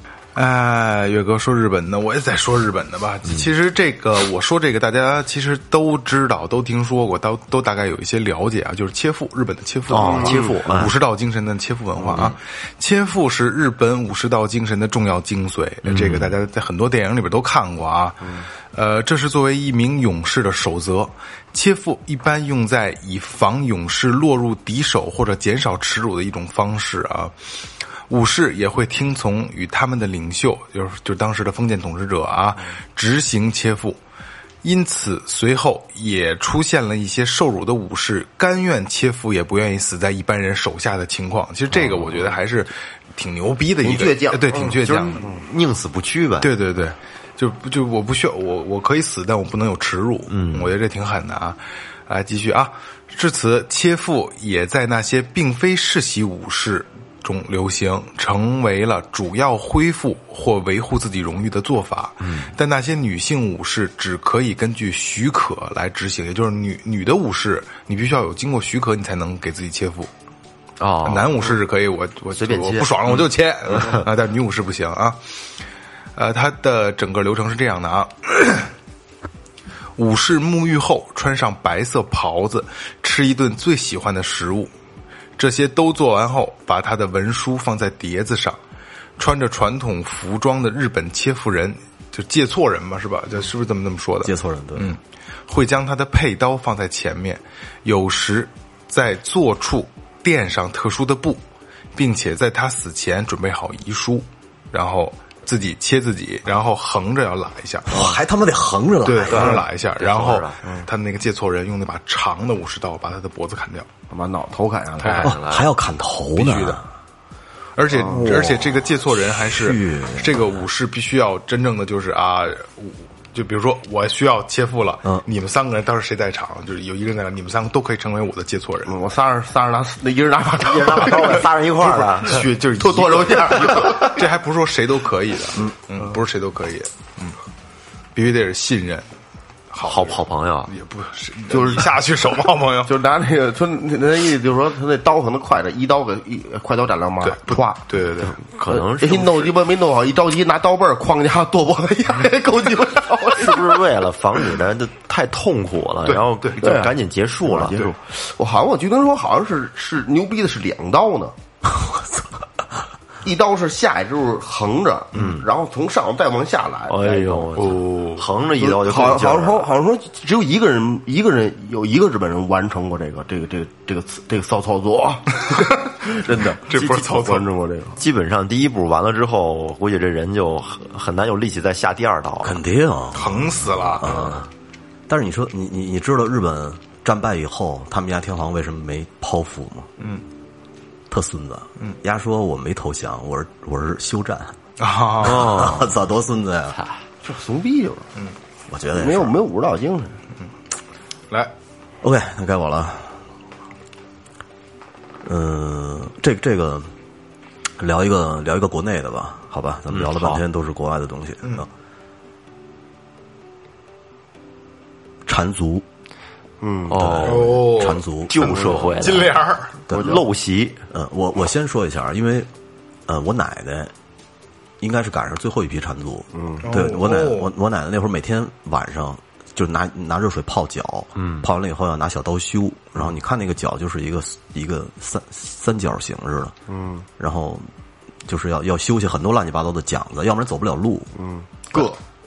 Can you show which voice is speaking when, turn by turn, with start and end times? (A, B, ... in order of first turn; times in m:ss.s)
0:00.3-0:27.3 A
0:09.9-0:10.9 B
0:10.0-0:10.4 C
0:15.8-0:16.3 B
0:28.1-0:34.0 A
0:34.6-0:45.2 A
0:43.8-0:45.4 C
0:44.8-0:46.5 B
0:46.4-1:10.1 A
0:50.3-0:50.7 B
1:02.2-1:02.5 B
1:10.8-1:11.5 B
1:11.0-1:15.2 A
1:12.3-1:14.0 B
1:16.2-1:18.7 A
1:20.0-1:24.7 A
1:25.4-1:28.6 A
1:29.2-1:41.4 A
1:34.2-1:35.0 D
1:41.9-1:48.1 A
1:47.9-1:49.6 D
1:49.0-1:53.9 A
1:49.3-1:50.6 B
1:50.6-1:50.9 C
1:54.1-1:55.3 C
1:55.0-1:55.6 A
1:55.2-1:56.8 D
1:56.4-1:56.8 A
1:57.8-2:08.9 A
1:57.9-1:58.3 C
1:58.1-1:58.9 D
1:59.5-2:00.5 D
2:08.9-2:14.1 C
2:10.6-2:12.5 B
2:12.3-2:17.4 A
2:13.6-2:13.9 B
2:18.1-2:19.1 A
2:19.7-2:22.9 A
2:19.8-2:20.7 B
2:21.5-2:22.0 C
2:22.8-2:27.8 C
2:27.2-2:28.4 A
2:28.2-2:29.5 B
2:28.7-2:33.8 C
2:33.3-2:37.9 B
2:36.0-2:36.6 A
2:36.6-2:41.3 C
2:41.7-2:42.2 D
2:43.2-2:47.5 C
2:45.1-2:45.5 B
2:46.9-2:49.7 B
2:47.6-2:48.2 A
2:48.6-2:58.0 C
2:56.6-2:57.5 A
2:58.0-3:02.6 B
3:02.4-3:04.5 D
3:03.1-3:04.4 A
3:05.1-3:09.9 D
3:10.0-3:10.2 A
3:11.1-3:14.6 D
3:14.8-3:15.7 A
3:15.2-3:16.8 D
3:15.2-3:15.9 B
3:17.2-3:18.1 C
3:18.7-3:19.4 D
3:18.9-3:20.2 C
3:22.0-3:23.2 D
3:25.2-3:26.9 D
3:27.8-3:31.7 D
3:29.9-3:30.4 B
3:35.2-3:35.8 D
3:36.6-3:37.0 C
3:36.9-3:37.7 B
3:36.9-3:38.6 D
3:37.2-3:39.8 A
3:38.3-3:39.3 B
3:38.4-3:38.7 C
3:39.9-3:40.2 D
3:39.9-3:40.8 B
3:39.9-3:40.2 C
3:40.9-3:42.5 D
3:43.1-3:43.9 D
3:44.8-3:56.5 D
3:46.3-3:46.6 C
3:46.6-3:47.5 A
3:51.1-3:51.5 B
3:56.7-3:57.1 C
3:57.2-3:57.7 D
3:58.2-4:01.1 D
4:01.1-4:02.0 C